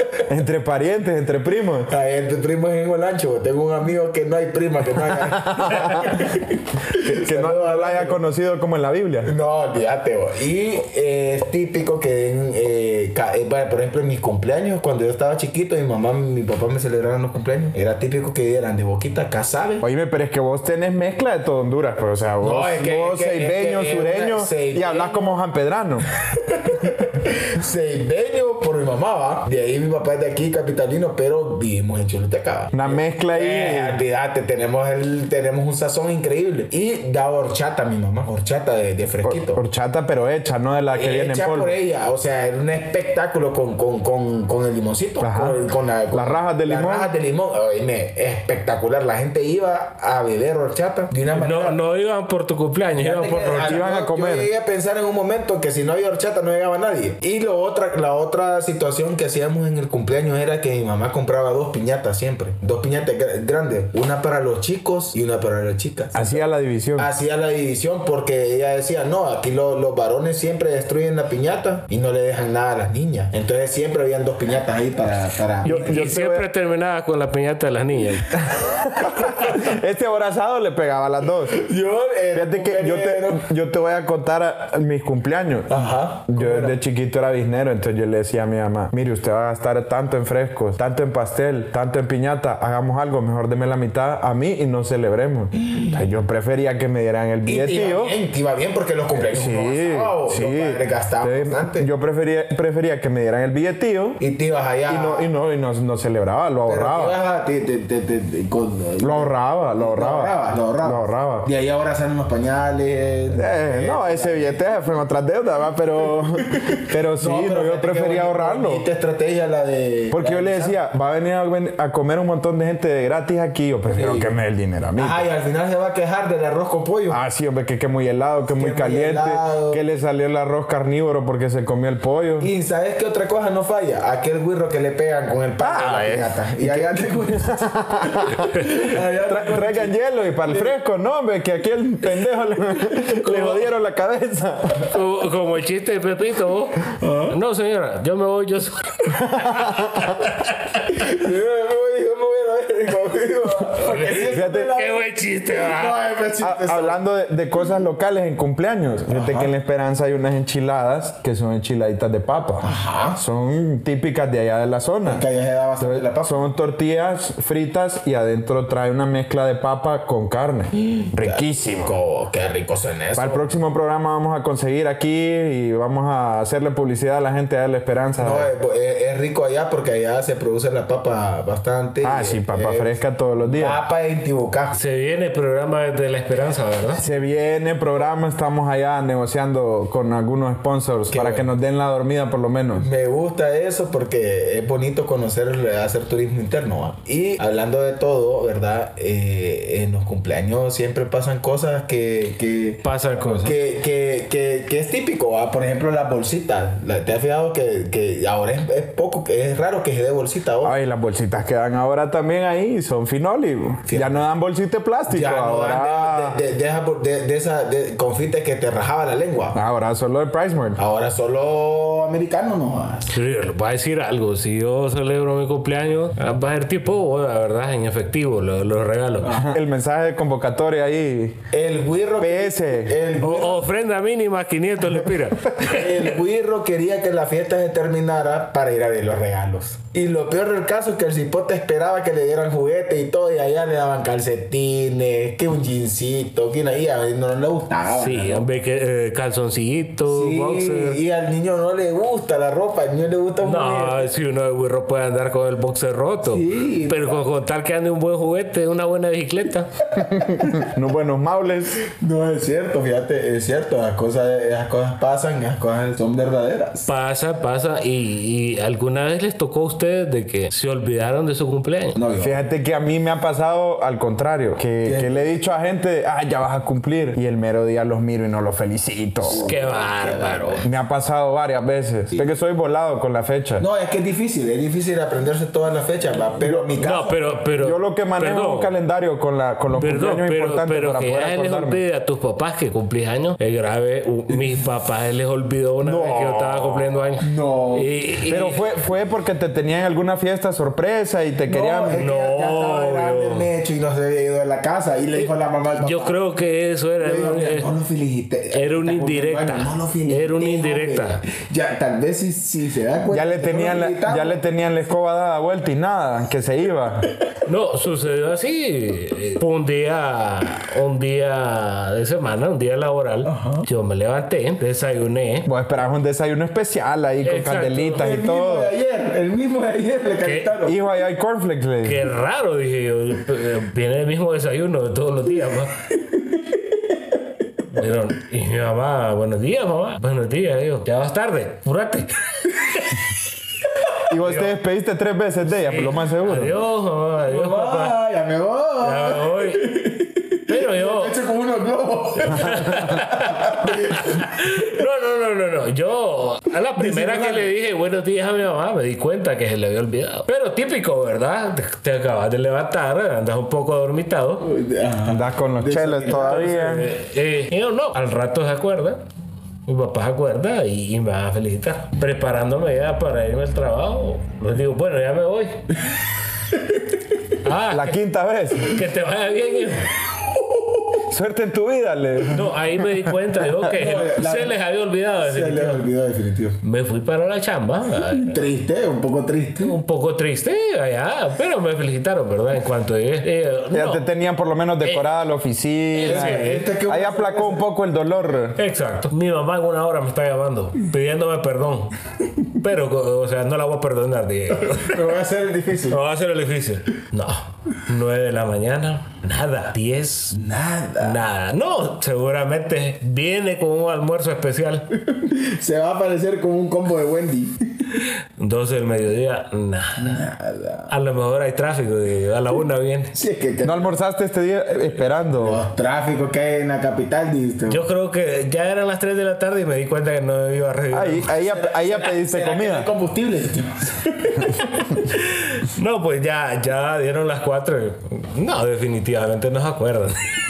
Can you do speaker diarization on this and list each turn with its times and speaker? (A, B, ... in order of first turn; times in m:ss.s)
0:00.3-0:01.9 A
0:01.9-0:08.2 B
0:05.1-0:06.3 A
0:06.9-0:09.3 A
0:09.2-0:19.8 B
0:19.8-0:26.0 A
0:22.4-0:25.3 B
0:26.4-0:39.6 B
0:32.7-0:34.0 A
0:39.2-0:41.8 A
0:40.9-0:51.8 B
0:45.2-0:45.6 A
0:46.1-0:47.1 A
0:51.3-0:53.8 C
0:53.0-1:06.4 B
0:53.6-0:54.5 A
1:06.2-1:07.1 A
1:07.0-1:15.9 B
1:15.6-1:16.4 A
1:15.7-1:18.4 C
1:18.4-1:21.6 A
1:21.5-1:23.4 B
1:22.3-1:38.2 A
1:25.7-1:26.8 B
1:35.6-1:36.0 B
1:37.5-1:41.9 B
1:39.2-1:44.2 A
1:44.2-1:45.3 B
1:44.9-1:47.2 A
1:46.7-1:54.7 B
1:49.0-1:51.5 A
1:53.4-1:58.8 A
1:56.6-2:00.8 B
2:00.1-2:05.2 A
2:03.9-2:04.3 B
2:05.0-2:07.2 B
2:07.1-2:12.5 A
2:08.6-2:09.8 B
2:12.4-2:20.7 B
2:15.6-2:24.9 A
2:23.2-2:23.7 C
2:24.8-2:30.6 C
2:27.0-2:27.4 B
2:29.1-2:30.2 A
2:30.8-2:35.0 B
2:33.8-2:36.0 C
2:34.3-2:34.7 A
2:35.5-2:37.0 B
2:36.4-2:45.2 A
2:39.1-2:39.5 B
2:42.6-2:43.2 B
2:45.1-2:46.5 B
2:45.8-2:51.9 A
2:50.8-2:53.5 B
2:53.2-2:58.5 A
2:58.2-3:04.8 B
3:02.0-3:03.8 A
3:04.8-3:07.0 C
3:07.0-3:12.9 A
3:11.1-3:11.5 B
3:12.8-3:22.8 B
3:22.8-3:23.6 C
3:23.3-3:30.8 B
3:30.6-3:36.4 A
3:33.9-3:34.2 B
3:35.1-3:39.6 B
3:39.6-3:40.8 A
3:40.8-3:43.1 B
3:43.1-3:49.4 C
3:49.2-3:49.6 B
3:49.3-3:51.4 A
3:51.5-3:53.6 B
3:52.2-3:53.0 A
3:53.2-3:56.1 C
3:55.6-4:08.5 B
4:08.0-4:11.0 C
4:10.1-4:14.1 B
4:13.4-4:19.7 C
4:16.2-4:17.2 B
4:20.0-4:20.7 B
4:20.0-4:21.8 A
4:21.9-4:26.9 B
4:26.9-4:32.0 C
4:32.0-4:32.4 B
4:32.2-4:39.5 A
4:34.8-4:35.3 B
4:39.3-4:40.7 B
4:39.3-4:40.6 C
4:40.6-4:43.6 A
4:43.6-4:47.2 B
4:46.8-4:48.7 C
4:47.6-4:51.8 A
4:49.7-4:58.7 C
4:55.8-4:56.9 A
4:57.2-4:57.9 B
4:58.3-5:02.0 A
5:01.5-5:06.2 B
5:02.0-5:03.5 C
5:05.2-5:07.7 C
5:07.0-5:14.4 B
5:08.5-5:11.2 C
5:13.1-5:17.1 A
5:17.5-5:25.5 C
5:23.2-5:23.7 B
5:25.5-5:28.7 A
5:27.2-5:28.1 C
5:28.0-5:30.8 B
5:30.2-5:30.5 C
5:30.6-5:32.0 A
5:31.8-5:35.7 C
5:36.1-5:36.6 B
5:37.7-5:43.0 C
5:44.1-5:46.6 A
5:44.2-5:44.5 C
5:45.5-5:48.0 C
5:47.3-5:54.3 B
5:48.8-5:49.7 C
5:50.5-5:51.2 C
5:52.3-6:04.4 C
5:56.8-5:57.5 B
6:04.4-6:06.5 B
6:05.1-6:06.9 A
6:06.1-6:09.0 C
6:09.7-6:15.6 C
6:16.5-6:17.2 B
6:17.4-6:18.0 C
6:17.7-6:18.8 A
6:18.6-6:19.9 C
6:20.2-6:21.0 B
6:21.1-6:23.0 A
6:22.3-6:25.9 C
6:23.7-6:24.6 B
6:25.2-6:26.6 B
6:26.6-6:28.4 C
6:28.1-6:29.7 B
6:29.6-6:34.0 C
6:33.7-6:38.6 A
6:34.8-6:35.1 C
6:35.9-6:36.7 C
6:36.0-6:37.7 B
6:38.6-6:42.0 C
6:42.5-6:45.1 C
6:44.8-6:46.0 B
6:45.9-6:50.4 C
6:50.3-6:51.2 B
6:51.0-6:54.9 C
6:55.1-6:57.9 B
6:58.0-7:00.2 C
7:00.0-7:00.9 B
7:00.9-7:03.2 C
7:03.1-7:03.9 B
7:03.6-7:05.6 A
7:05.4-7:07.8 B
7:07.7-7:11.3 C
7:10.9-7:12.9 A
7:11.4-7:14.8 B
7:15.1-7:20.2 C